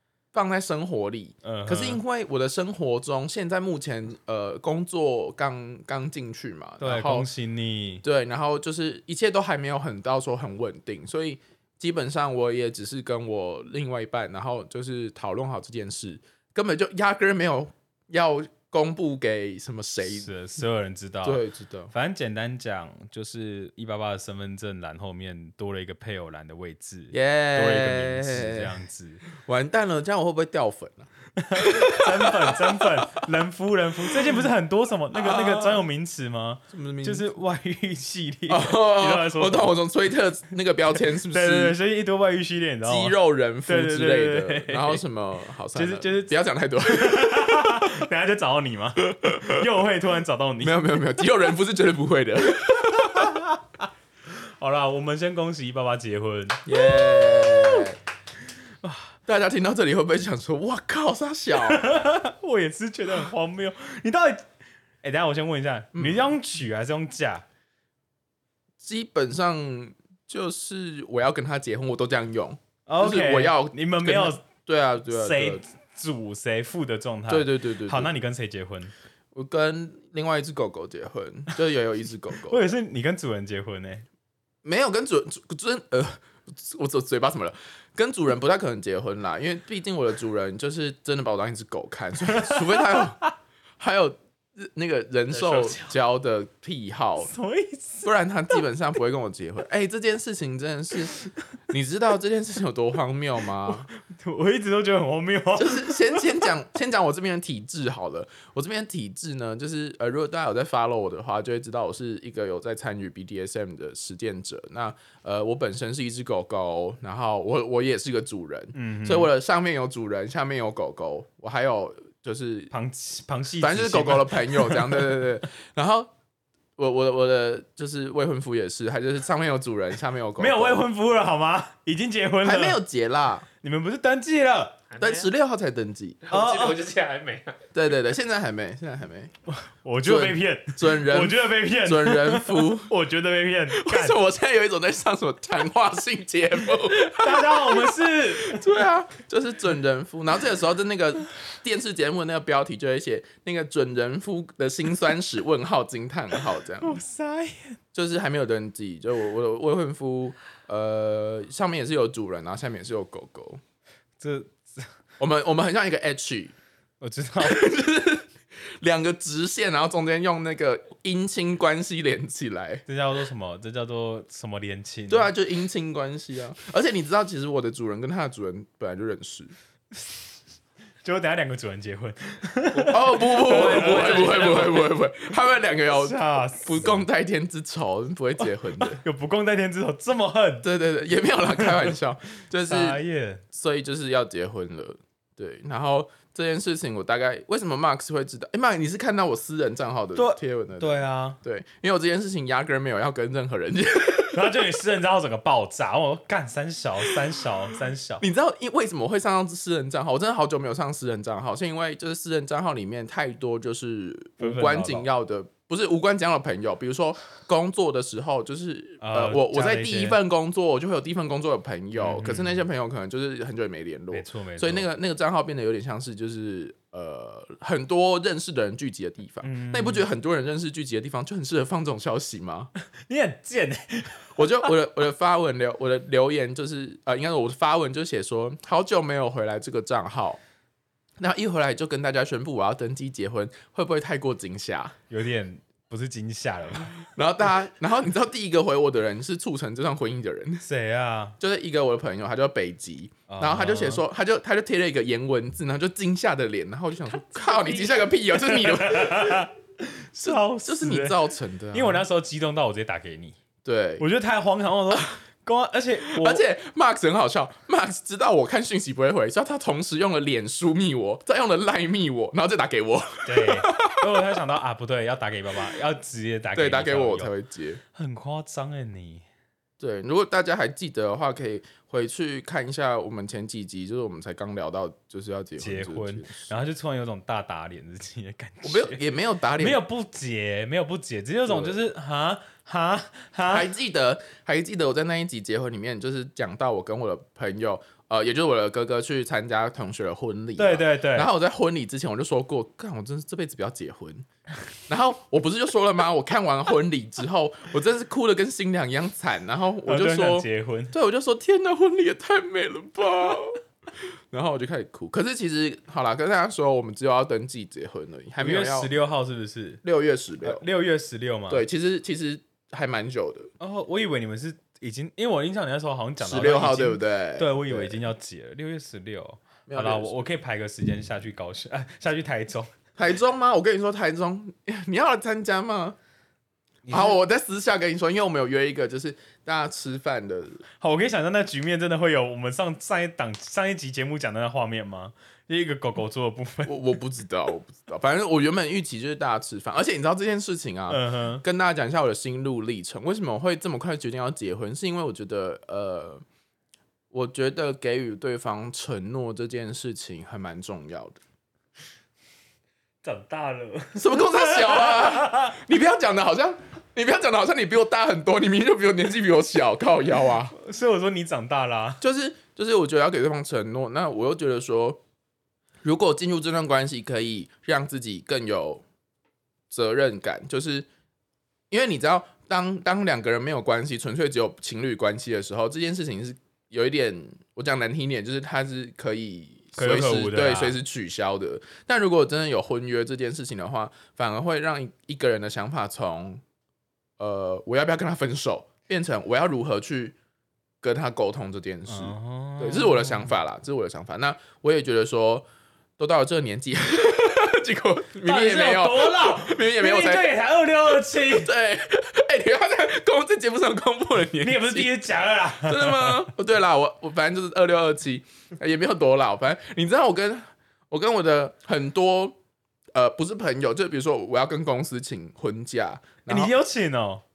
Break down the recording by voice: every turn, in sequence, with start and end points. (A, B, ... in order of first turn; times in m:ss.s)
0:00.3-0:07.3 A
0:01.4-0:02.0 B
0:06.8-0:08.0 B
0:08.0-0:20.3 A
0:20.0-0:29.2 B
0:21.2-0:21.9 A
0:27.1-0:28.7 A
0:29.3-0:33.2 A
0:31.4-0:39.7 B
0:34.2-0:34.4 A
0:35.1-0:35.8 A
0:36.7-0:37.2 A
0:38.5-0:41.7 A
0:41.2-0:45.0 B
0:42.8-0:48.1 A
0:45.7-0:50.9 B
0:49.1-0:49.6 A
0:50.6-0:53.4 A
0:52.8-0:57.8 B
0:56.6-0:58.0 A
0:58.8-0:59.1 B
0:59.2-1:01.8 A
1:01.6-1:04.4 B
1:05.0-1:07.4 B
1:05.9-1:06.3 A
1:08.8-1:15.6 A
1:12.9-1:14.4 B
1:15.1-1:18.9 B
1:17.3-1:18.1 A
1:19.3-1:22.7 A
1:22.4-1:24.0 B
1:24.6-1:33.2 A
1:32.3-1:33.3 B
1:33.8-1:37.3 A
1:37.2-1:38.1 B
1:38.0-1:43.9 A
1:43.8-1:46.4 B
1:45.6-2:02.7 A
1:58.7-1:59.3 B
2:02.7-2:05.2 B
2:03.6-2:06.1 A
2:06.8-2:10.8 A
2:10.4-2:12.8 B
2:12.4-2:13.4 A
2:13.6-2:14.8 B
2:15.0-2:16.4 A
2:16.3-2:16.9 B
2:16.3-2:17.7 C
2:17.7-2:19.3 A
2:19.5-2:24.2 B
2:20.0-2:22.9 A
2:23.7-2:37.0 A
2:27.1-2:28.7 B
2:36.8-2:37.8 B
2:37.9-2:43.6 A
2:44.2-2:44.9 B
2:45.2-2:46.5 A
2:47.0-2:47.6 B
2:47.4-2:52.8 A
2:52.9-2:55.3 B
2:55.1-2:59.5 A
3:01.0-3:04.8 B
3:02.8-3:09.0 A
3:03.0-3:04.7 C
3:05.9-3:06.9 B
3:08.8-3:10.7 B
3:10.6-3:24.6 A
3:11.6-3:11.9 B
3:12.6-3:13.4 B
3:20.2-3:21.4 B
3:24.3-3:28.2 B
3:28.2-3:52.7 A
3:34.4-3:35.1 B
3:39.0-3:40.2 B
3:41.9-3:42.6 B
3:44.1-3:44.9 B
3:49.4-3:50.0 B
3:52.9-3:54.7 B
3:54.4-4:00.4 A
4:01.2-4:05.0 A
4:05.1-4:07.1 B
4:07.1-4:10.6 A
4:10.6-4:11.4 B
4:11.4-4:19.5 A
4:13.3-4:14.0 B
4:18.2-4:23.4 B
4:20.2-4:22.0 A
4:23.6-4:24.0 A
4:24.0-4:26.4 B
4:26.0-4:34.1 A
4:33.2-4:37.3 B
4:36.5-4:37.8 A
4:37.9-4:39.2 B
4:39.8-4:46.6 A
4:45.6-4:49.0 B
4:48.6-4:49.8 A
4:49.6-4:53.7 B
4:51.4-4:51.8 A
4:53.5-5:04.3 A
5:00.6-5:01.3 B
5:04.9-5:18.9 A
5:09.8-5:10.9 B
5:18.4-5:19.8 B
5:19.8-5:20.6 A
5:20.4-5:21.6 B
5:21.5-5:23.5 A
5:23.6-5:32.7 B
5:26.2-5:28.0 A
5:29.7-5:30.2 A
5:33.0-5:36.0 A
5:36.8-5:37.1 B
5:36.9-5:40.6 A
5:40.8-5:46.8 B
5:46.6-5:56.2 A
5:50.9-5:51.4 B
5:57.1-6:01.2 A
6:03.0-6:05.6 B
6:03.9-6:10.5 A
6:10.5-6:12.0 B
6:12.0-6:15.0 A
6:15.8-6:18.8 A
6:19.7-6:20.9 A
6:21.7-6:36.4 A
6:29.8-6:30.8 B
6:37.2-6:40.2 A
6:40.8-6:45.4 A
6:41.9-6:43.3 B
6:46.0-6:50.3 A
6:48.2-6:51.5 B
6:50.9-6:55.0 A
6:54.4-6:56.3 B
6:55.5-7:02.4 A
7:02.9-7:06.5 A
7:06.3-7:07.2 B